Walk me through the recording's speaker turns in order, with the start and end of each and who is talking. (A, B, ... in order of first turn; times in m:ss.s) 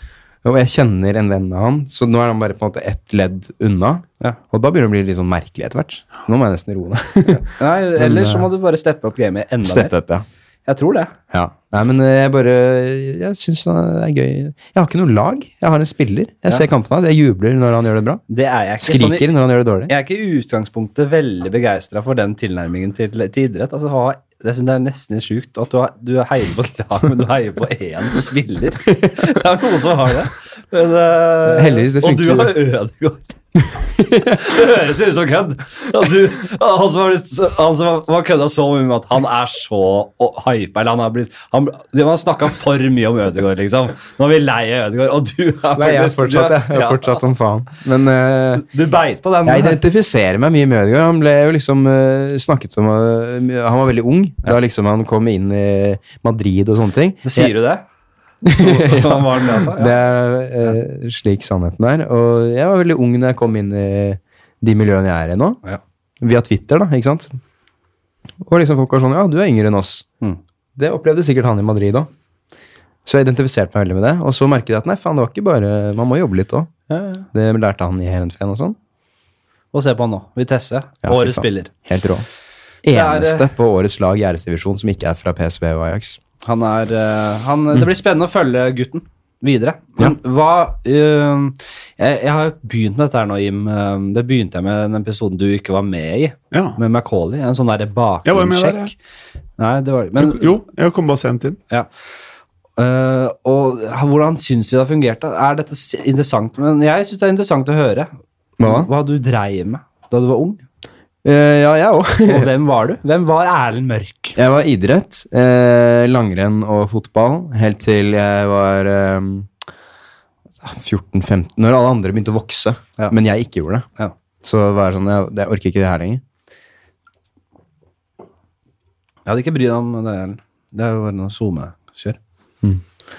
0:00.4-0:08.5 A
0:07.3-0:09.9 B
0:09.6-0:10.2 A
0:10.7-0:11.1 B
0:11.3-0:18.2 A
0:18.3-0:19.3 B
0:18.8-0:19.9 A
0:19.9-0:33.3 B
0:31.5-0:32.6 A
0:33.6-0:34.6 A
0:34.3-0:47.2 B
0:45.8-0:48.7 A
0:48.6-0:49.8 B
0:49.4-0:57.5 A
0:57.2-0:57.8 B
0:58.4-1:05.6 A
0:58.6-1:00.0 B
1:06.2-1:07.4 A
1:08.4-1:10.1 A
1:10.8-1:12.1 A
1:13.1-1:16.7 A
1:16.9-1:17.2 B
1:17.3-1:18.8 A
1:19.7-1:21.7 B
1:21.0-1:22.2 A
1:22.8-1:26.2 A
1:22.9-1:23.5 B
1:26.4-1:38.9 B
1:36.5-1:36.8 C
1:38.2-1:38.9 C
1:39.6-1:40.5 B
1:40.2-1:41.6 C
1:42.8-1:48.1 B
1:48.6-1:48.9 A
1:48.6-1:50.6 B
1:51.2-1:52.5 A
1:52.2-1:54.4 B
1:54.4-1:59.5 A
2:00.6-2:03.9 A
2:04.4-2:06.2 A
2:09.2-2:12.2 B